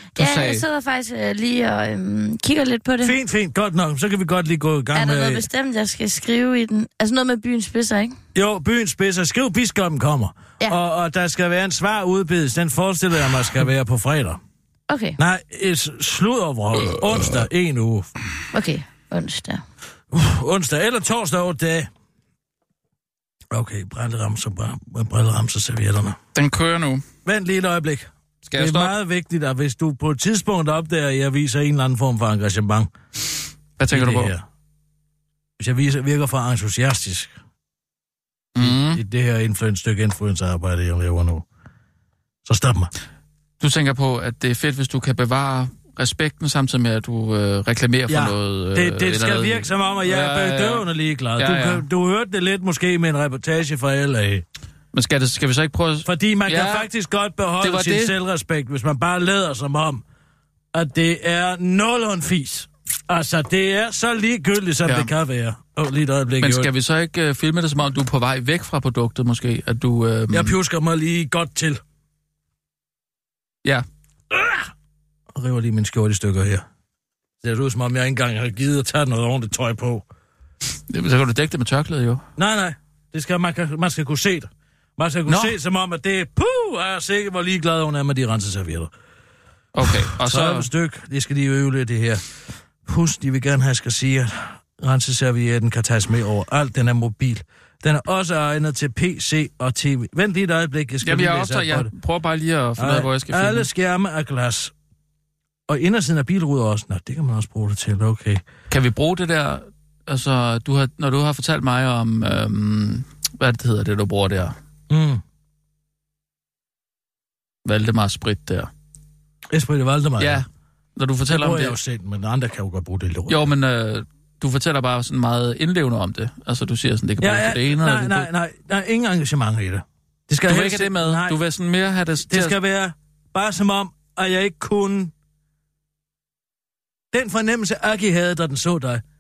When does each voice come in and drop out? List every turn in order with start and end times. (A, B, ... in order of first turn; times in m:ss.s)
0:00.2-0:00.6 A
0:00.2-0:03.2 B
0:03.0-0:05.5 C
0:04.9-0:08.2 B
0:08.3-0:14.4 C
0:14.9-0:15.2 B
0:15.2-0:18.1 C
0:18.5-0:19.6 B
0:20.1-0:21.9 C
0:23.5-0:26.2 C
0:26.3-0:27.0 A
0:27.2-0:32.9 C
0:28.4-0:28.9 A
0:33.8-0:34.3 A
0:33.9-0:34.4 C
0:35.6-0:37.3 C
0:38.6-0:39.0 A
0:38.6-0:41.4 C
0:42.4-0:42.9 C
0:43.6-0:50.9 A
0:48.1-0:54.4 C
0:51.4-0:51.8 A
0:54.9-0:56.9 A
0:56.0-1:00.0 C
0:57.6-0:58.1 A
1:00.7-1:06.7 C
1:04.8-1:05.1 A
1:06.4-1:10.6 A
1:10.3-1:11.8 C
1:14.3-1:14.7 C
1:15.3-1:16.6 C
1:17.4-1:20.0 C
1:20.9-1:22.2 A
1:22.4-1:28.9 C
1:25.3-1:25.6 A
1:29.7-1:30.7 A
1:29.8-1:32.2 C
1:32.9-1:41.9 C
1:41.0-1:43.7 A
1:42.8-1:44.7 C
1:45.7-1:48.4 C
1:48.7-1:54.6 A
1:54.9-1:55.2 C
1:57.6-1:58.7 A
1:59.5-2:00.4 C
2:00.2-2:01.8 A
2:01.3-2:03.5 C
2:03.3-2:08.3 A
2:07.2-2:11.4 C
2:10.5-2:12.6 A
2:12.3-2:15.1 C
2:17.1-2:19.0 C